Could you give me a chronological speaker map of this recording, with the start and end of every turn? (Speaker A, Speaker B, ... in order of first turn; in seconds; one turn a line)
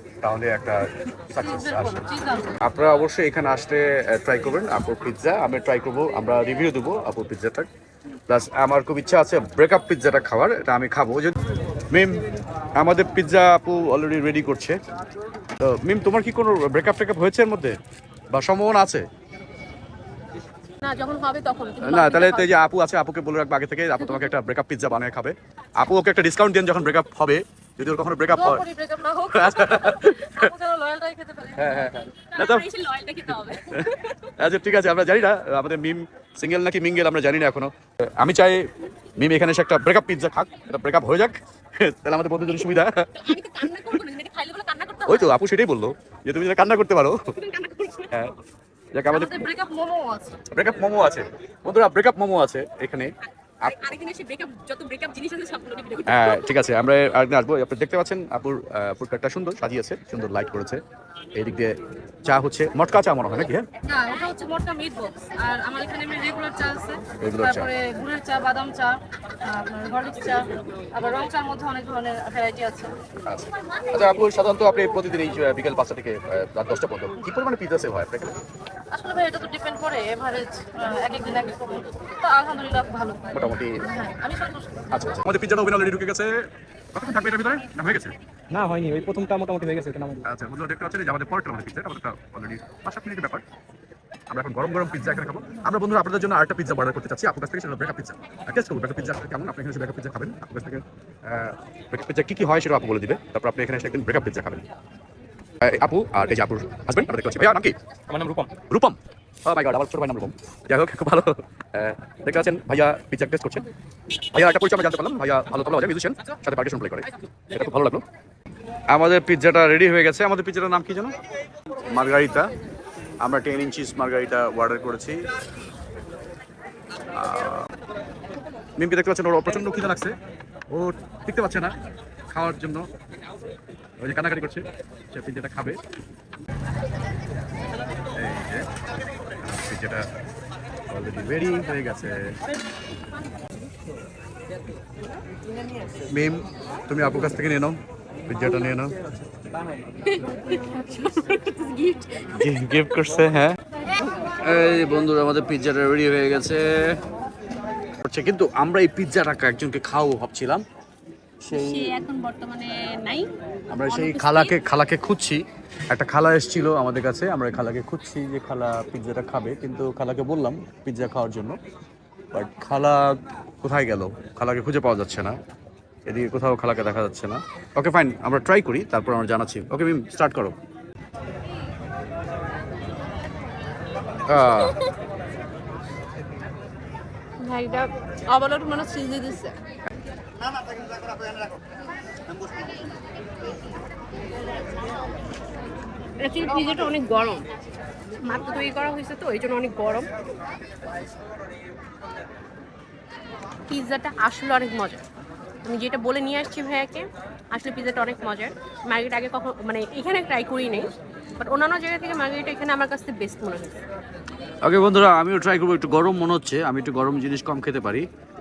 Speaker A: 0.2-2.1
Speaker B: 1.4-2.6
Speaker A: 2.6-7.7
Speaker A: 8.3-11.4
Speaker A: 11.9-12.2
Speaker A: 12.8-14.8
Speaker A: 15.6-17.8
Speaker A: 18.3-19.1
Speaker C: 20.8-22.6
Speaker A: 21.8-28.6
Speaker B: 28.3-32.0
Speaker A: 29.3-30.5
Speaker A: 31.6-32.7
Speaker C: 32.3-34.3
Speaker A: 33.5-43.1
Speaker C: 43.2-45.4
Speaker A: 45.1-47.2
Speaker C: 47.4-48.3
Speaker A: 48.1-48.4
Speaker A: 48.9-49.5
Speaker B: 49.1-50.4
Speaker A: 50.5-53.1
Speaker C: 53.6-56.6
Speaker A: 56.1-60.8
Speaker A: 61.4-63.7
Speaker B: 63.9-72.9
Speaker A: 67.2-67.7
Speaker A: 73.3-78.4
Speaker B: 78.9-85.2
Speaker A: 83.3-83.9
Speaker A: 84.9-88.2
Speaker D: 88.5-90.2
Speaker A: 90.2-93.4
Speaker A: 94.3-104.6
Speaker A: 105.6-107.8
Speaker D: 108.1-108.5
Speaker A: 108.5-113.7
Speaker A: 114.3-118.0
Speaker A: 118.9-121.2
Speaker A: 121.9-122.5
Speaker A: 123.2-125.2
Speaker A: 127.2-127.7
Speaker A: 128.8-130.2
Speaker A: 130.7-131.7
Speaker A: 132.3-132.9
Speaker A: 134.0-135.8
Speaker A: 138.1-138.7
Speaker A: 139.4-140.1
Speaker A: 140.9-142.3
Speaker A: 146.1-148.9
Speaker C: 150.0-152.4
Speaker A: 152.3-153.6
Speaker A: 154.4-157.0
Speaker A: 158.0-160.6
Speaker A: 161.4-161.9
Speaker C: 161.5-163.3
Speaker A: 163.7-171.6
Speaker C: 163.9-164.6
Speaker A: 172.3-175.3
Speaker A: 176.1-180.6
Speaker A: 184.3-184.8
Speaker C: 187.4-189.6
Speaker C: 196.2-197.5
Speaker C: 198.2-200.1
Speaker C: 203.7-205.1
Speaker C: 205.6-213.8
Speaker A: 214.6-218.1